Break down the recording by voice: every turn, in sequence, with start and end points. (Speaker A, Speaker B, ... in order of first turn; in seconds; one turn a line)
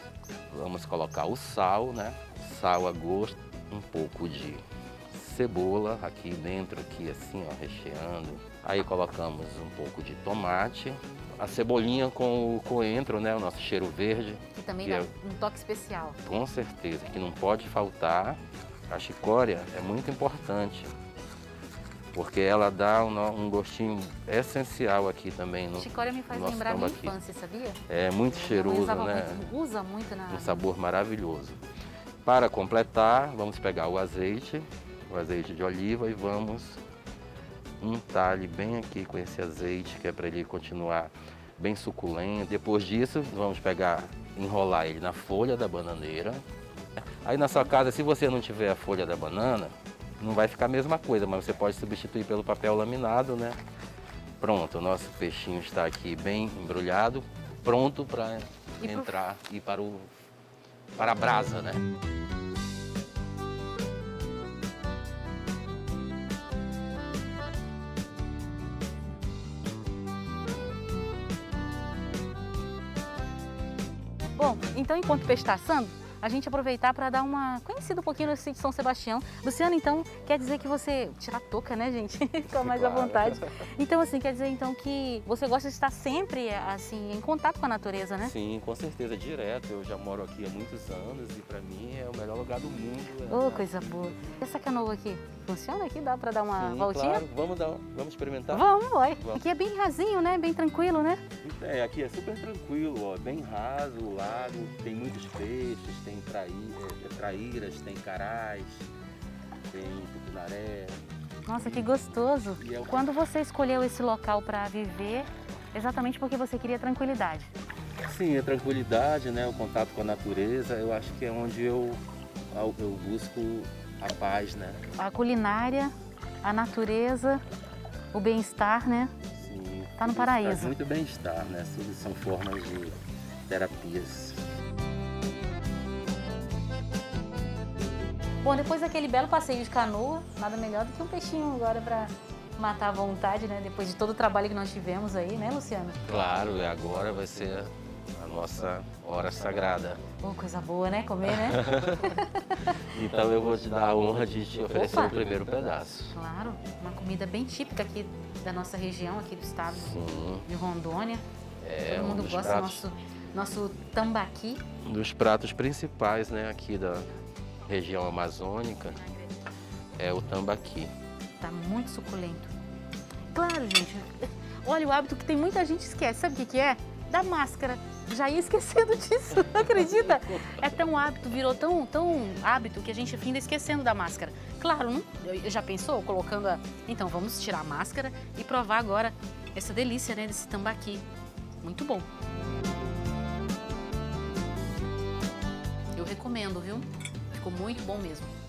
Speaker A: 0.5-15.1
Speaker B: 14.6-16.2
Speaker A: 16.2-20.9
Speaker A: 22.1-27.2
Speaker B: 25.8-27.8
Speaker A: 27.9-29.5
Speaker B: 28.3-30.6
Speaker A: 30.3-31.6
Speaker A: 32.2-36.8
Speaker A: 37.8-46.4
Speaker A: 47.2-53.6
Speaker A: 54.4-60.1
Speaker B: 58.8-59.2
Speaker A: 61.0-61.8
Speaker B: 74.4-88.3
Speaker A: 82.5-83.7
Speaker A: 88.2-94.3
Speaker B: 93.3-97.2
Speaker A: 96.5-99.4
Speaker B: 98.5-101.2
Speaker A: 101.4-108.9
Speaker A: 109.7-111.0
Speaker B: 111.5-117.5
Speaker A: 111.6-113.1
Speaker A: 118.0-124.8
Speaker B: 125.0-127.4
Speaker B: 128.1-129.1
Speaker A: 129.3-134.4
Speaker B: 130.0-130.8
Speaker B: 138.4-146.0
Speaker A: 146.1-150.0
Speaker B: 150.2-152.7
Speaker A: 151.3-156.2
Speaker B: 154.7-155.2
Speaker B: 156.1-161.2
Speaker A: 159.7-160.5
Speaker A: 161.6-162.9
Speaker B: 161.8-164.6
Speaker A: 164.8-167.1
Speaker A: 167.7-169.0
Speaker A: 170.0-170.9
Speaker B: 171.4-172.5
Speaker B: 173.3-191.1
Speaker A: 179.4-181.0
Speaker B: 191.6-192.1
Speaker B: 195.9-198.3